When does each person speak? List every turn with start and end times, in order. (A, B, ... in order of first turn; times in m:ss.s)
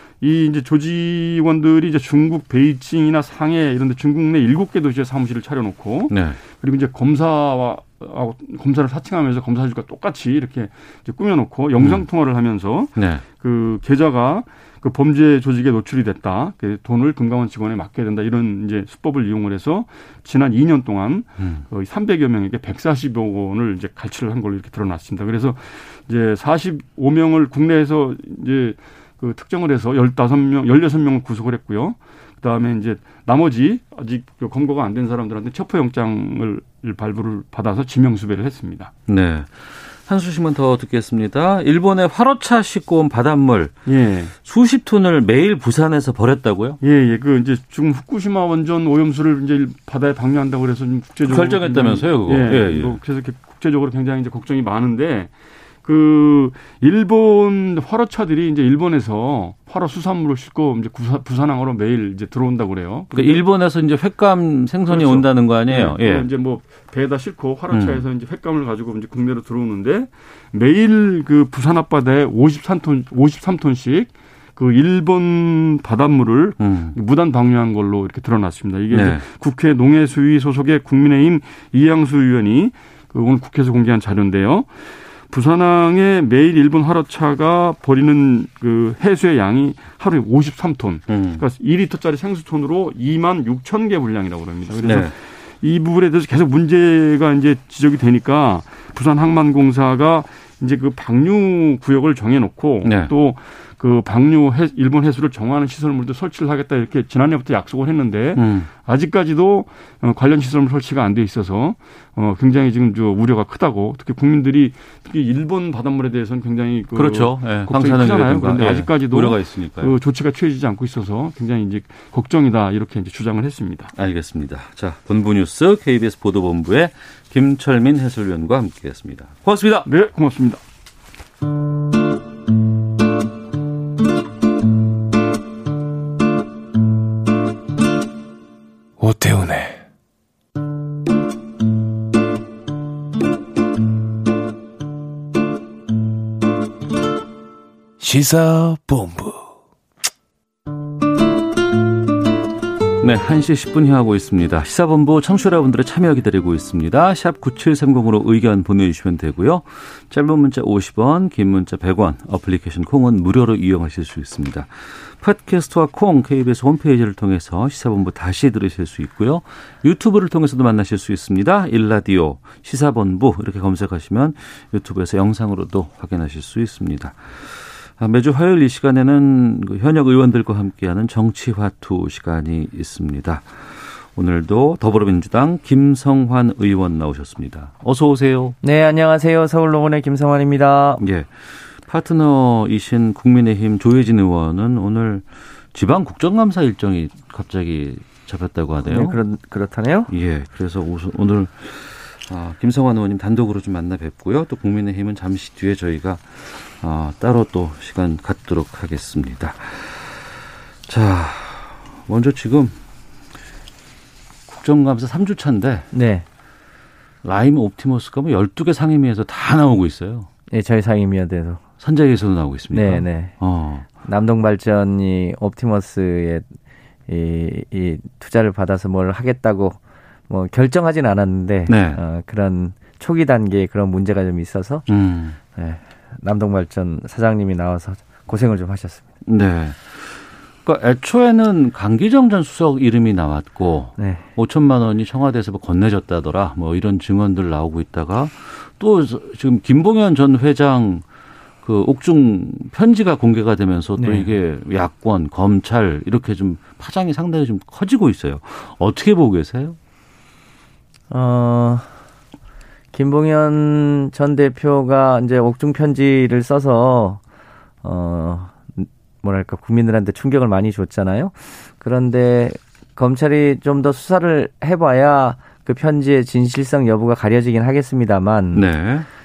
0:00.2-0:38.9 A
0:06.1-0:06.4 B
0:11.8-0:12.0 B
0:13.0-0:13.2 B
0:39.1-0:43.8 B
0:43.9-0:44.3 A
0:44.4-0:46.8 B
0:46.8-0:55.3 A
0:51.2-0:53.0 B
0:55.8-1:03.4 A
1:03.1-1:06.3 B
1:04.9-1:24.7 A
1:07.7-1:08.0 B
1:16.6-1:17.0 B
1:18.9-1:19.2 B
1:25.3-2:03.9 A
1:31.1-1:31.4 B
1:34.8-1:35.1 B
1:42.8-1:43.1 B
1:48.4-1:48.7 B
1:57.0-2:00.0 B
2:04.0-2:09.9 B
2:09.9-2:10.6 A
2:19.0-2:19.8 C
2:28.0-2:29.4 C
2:33.0-3:08.6 B
3:08.6-3:11.0 D
3:11.0-3:11.3 B
3:11.8-3:19.2 B
3:18.8-3:20.1 D
3:20.1-3:30.4 B
3:30.9-3:32.8 B
3:34.5-3:35.9 B
3:35.9-3:36.2 D
3:37.2-3:40.3 B
3:40.5-3:41.6 D
3:41.8-3:43.9 B
3:42.7-3:43.3 D
3:44.0-3:46.4 D
3:47.1-3:49.8 D
3:50.3-3:54.9 D
3:51.7-3:52.0 B
3:54.9-3:55.4 B
3:55.6-3:59.0 D
3:59.2-4:11.0 B
4:04.0-4:04.2 D
4:11.6-4:19.8 B
4:14.0-4:14.3 D
4:21.1-4:21.9 D
4:22.9-4:27.2 D
4:27.8-4:38.7 D
4:38.5-4:39.1 B